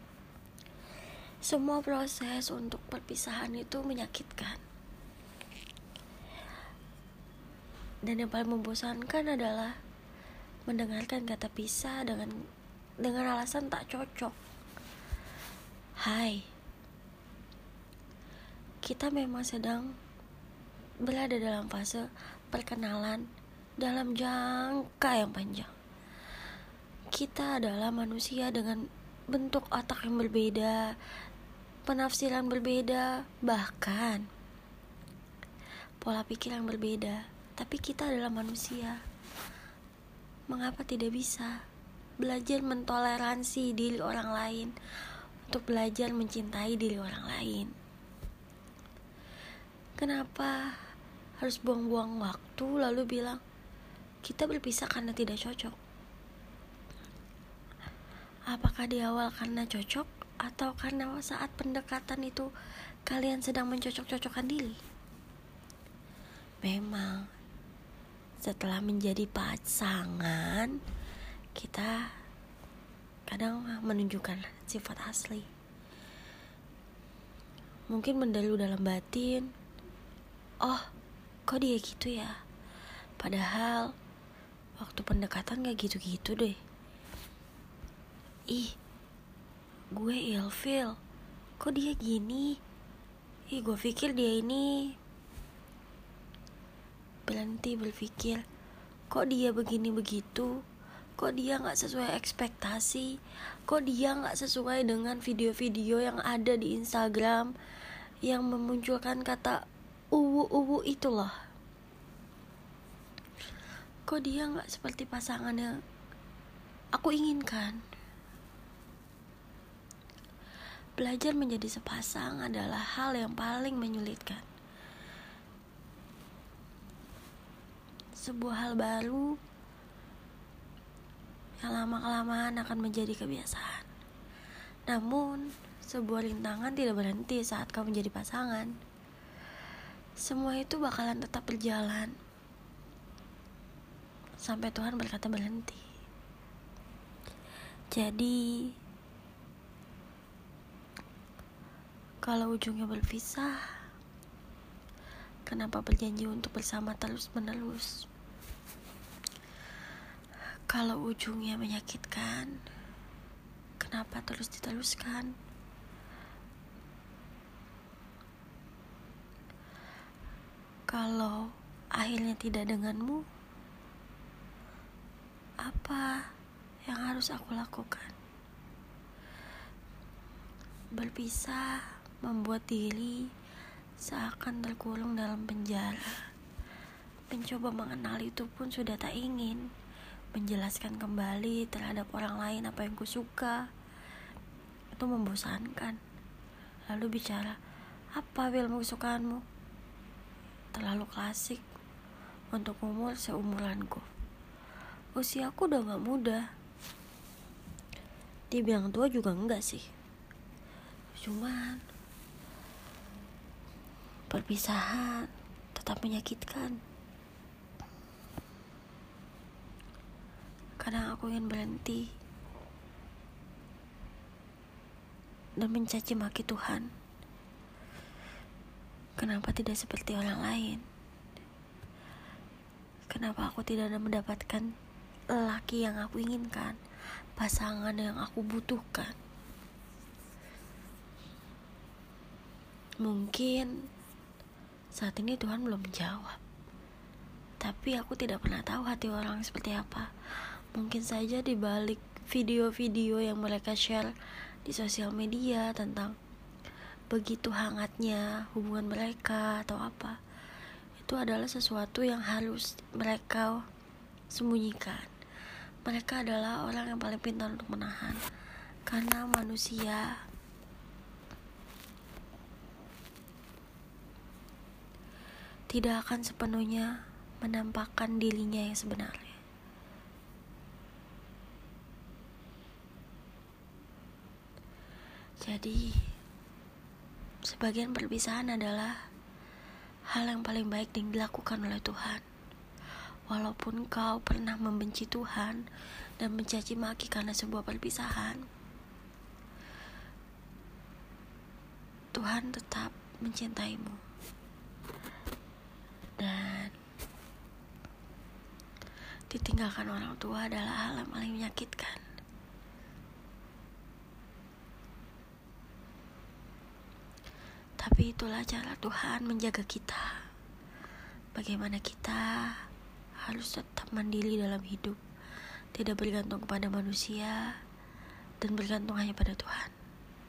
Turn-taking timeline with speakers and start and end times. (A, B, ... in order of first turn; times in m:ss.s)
0:01.4-0:04.6 A
0:08.0-0:09.8 A
0:10.7-0:12.4 A
0:13.0-0:14.4 A
0:16.0-0:16.5 A
0:18.8-0:20.0 A
0:21.0-0:23.3 A
0:23.8-0:25.7 A
0:27.1-0:30.9 A
0:31.9-0:34.3 A
0:36.0-0:39.0 A
0:40.5-0:41.6 A
0:42.2-0:44.7 A
0:45.5-0:47.7 A
0:50.0-0:50.6 A
0:51.4-0:53.4 A
0:54.2-0:55.8 A
0:58.5-1:02.5 A
1:03.1-1:04.8 A
1:06.6-1:07.3 A
1:08.4-1:10.8 A
1:11.6-1:12.1 A
1:13.3-1:15.5 A
1:17.9-1:19.5 A
1:20.6-1:20.9 A
1:21.5-1:22.4 A
1:23.2-1:23.9 A
1:24.8-1:26.6 A
1:28.5-1:28.8 A
1:29.9-1:31.0 A
1:31.6-1:32.6 A
1:33.5-1:34.8 A
1:37.3-1:38.4 A
1:39.1-1:40.5 A
1:41.2-1:43.2 A
1:43.7-1:47.5 A
1:48.2-1:49.6 A
1:50.1-1:51.4 A
1:54.1-1:55.8 A
1:57.0-1:57.8 A
2:01.0-2:04.5 A
2:08.2-2:09.4 A
2:11.6-2:13.9 A
2:14.9-2:18.8 A
2:20.2-2:22.2 A
2:24.4-2:25.8 A
2:27.9-2:28.7 A
2:32.2-2:33.6 A
2:35.5-2:38.0 A
2:40.7-2:42.6 A
2:43.8-2:45.3 A
2:50.9-2:53.2 A
2:55.6-2:56.2 A
2:56.9-2:58.2 A
3:01.0-3:03.3 A
3:04.0-3:06.2 A
3:07.3-3:09.7 A
3:10.3-3:13.6 A
3:15.0-3:16.0 A
3:16.9-3:17.6 A
3:18.2-3:19.4 A
3:20.7-3:21.6 A
3:22.5-3:24.1 A
3:25.2-3:26.4 A
3:28.5-3:29.9 A
3:31.2-3:31.8 A
3:34.3-3:36.8 A
3:40.8-3:42.1 A
3:45.6-3:46.9 A
3:49.2-3:50.8 A
3:53.1-3:54.7 A
3:55.3-3:56.8 A
3:57.4-3:59.2 A
4:03.0-4:03.7 A
4:05.0-4:06.4 A
4:07.6-4:10.1 A
4:10.7-4:14.1 A
4:14.6-4:16.2 A
4:17.1-4:20.2 A
4:21.0-4:23.6 A
4:24.3-4:25.1 A
4:25.8-4:28.2 A
4:28.9-4:30.2 A
4:35.7-4:39.4 A
4:45.4-4:46.1 A
4:47.5-4:49.0 A
4:50.1-4:52.2 A
4:53.3-4:55.6 A
4:56.2-4:58.5 A
5:02.1-5:04.0 A
5:06.2-5:06.8 A
5:09.3-5:12.0 A
5:17.8-5:20.2 A
5:21.4-5:22.6 A
5:23.2-5:25.0 A
5:25.7-5:27.6 A
5:28.4-5:29.7 A